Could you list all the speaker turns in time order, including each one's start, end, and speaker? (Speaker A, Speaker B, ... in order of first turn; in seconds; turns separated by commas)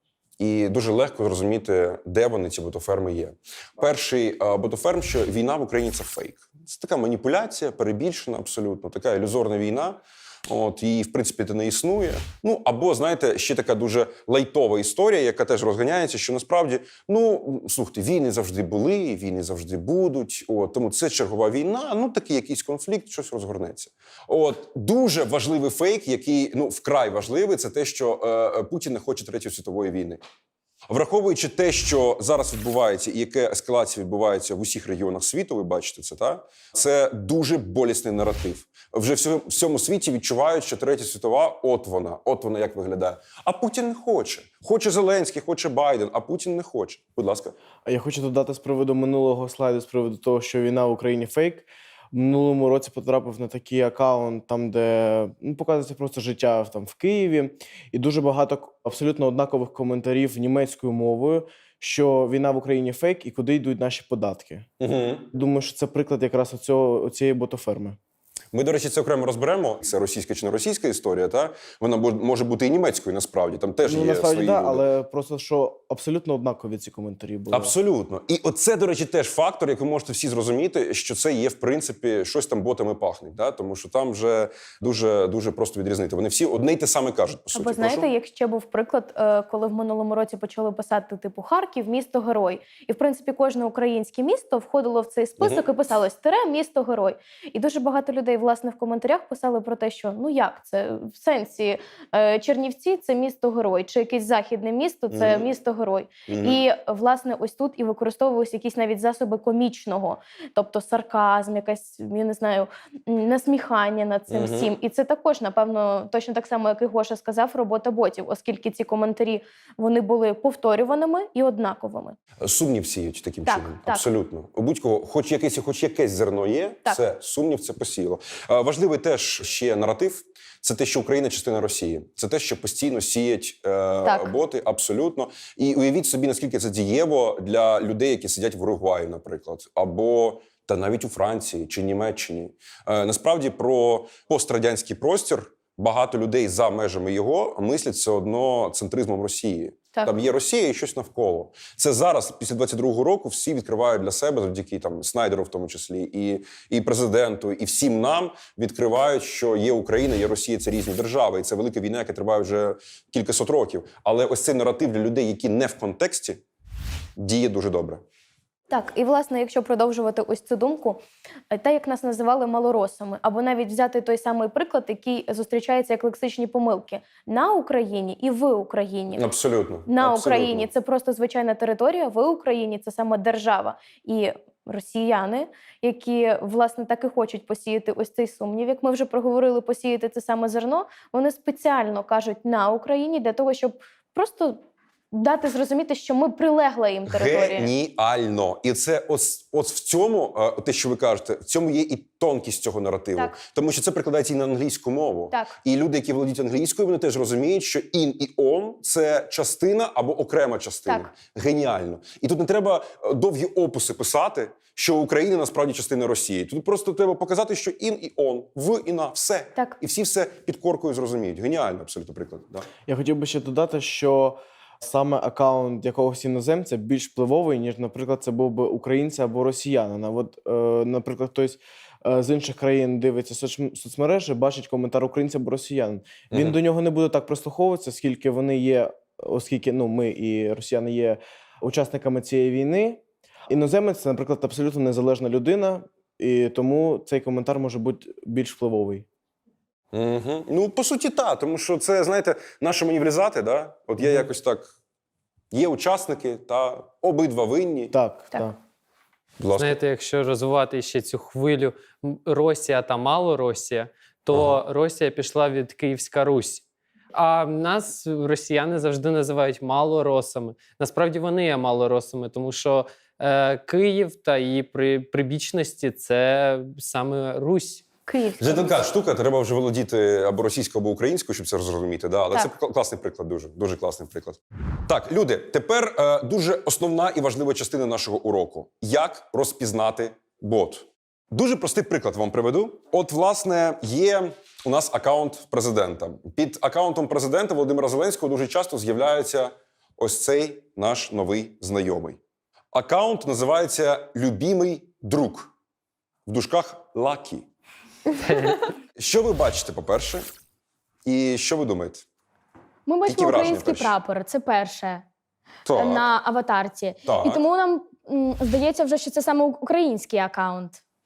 Speaker A: 0.4-30.2, Speaker A: 30.9-47.5, Speaker B: 47.9-64.7, Speaker A: 64.8-65.3, Speaker B: 65.3-68.0, Speaker A: 68.5-74.8, Speaker B: 73.8-77.7, Speaker A: 77.5-88.1, Speaker C: 87.5-122.2, Speaker A: 105.1-105.5, Speaker A: 106.3-106.6, Speaker A: 114.3-114.7, Speaker A: 122.4-166.4, Speaker C: 123.5-124.1, Speaker C: 134.0-134.3, Speaker A: 167.2-168.0, Speaker C: 168.7-171.0, Speaker C: 171.5-179.3, Speaker A: 179.2-180.7, Speaker C: 179.9-194.6, Speaker C: 195.1-197.7, Speaker A: 197.1-222.7, Speaker C: 205.3-205.6, Speaker B: 222.9-249.1, Speaker A: 236.3-236.6, Speaker A: 249.9-254.7, Speaker A: 255.5-257.9, Speaker B: 257.9-258.6, Speaker A: 259.4-259.8, Speaker D: 259.6-277.9, Speaker A: 264.3-264.6, Speaker C: 278.1-278.9, Speaker A: 278.4-302.2, Speaker A: 302.7-305.5, Speaker A: 306.3-307.4, Speaker D: 308.2-308.5, Speaker A: 309.0-310.2, Speaker A: 311.1-312.1, Speaker E: 312.9-315.0, Speaker A: 313.1-313.9, Speaker A: 315.6-316.1, Speaker E: 315.7-320.8, Speaker A: 317.1-317.4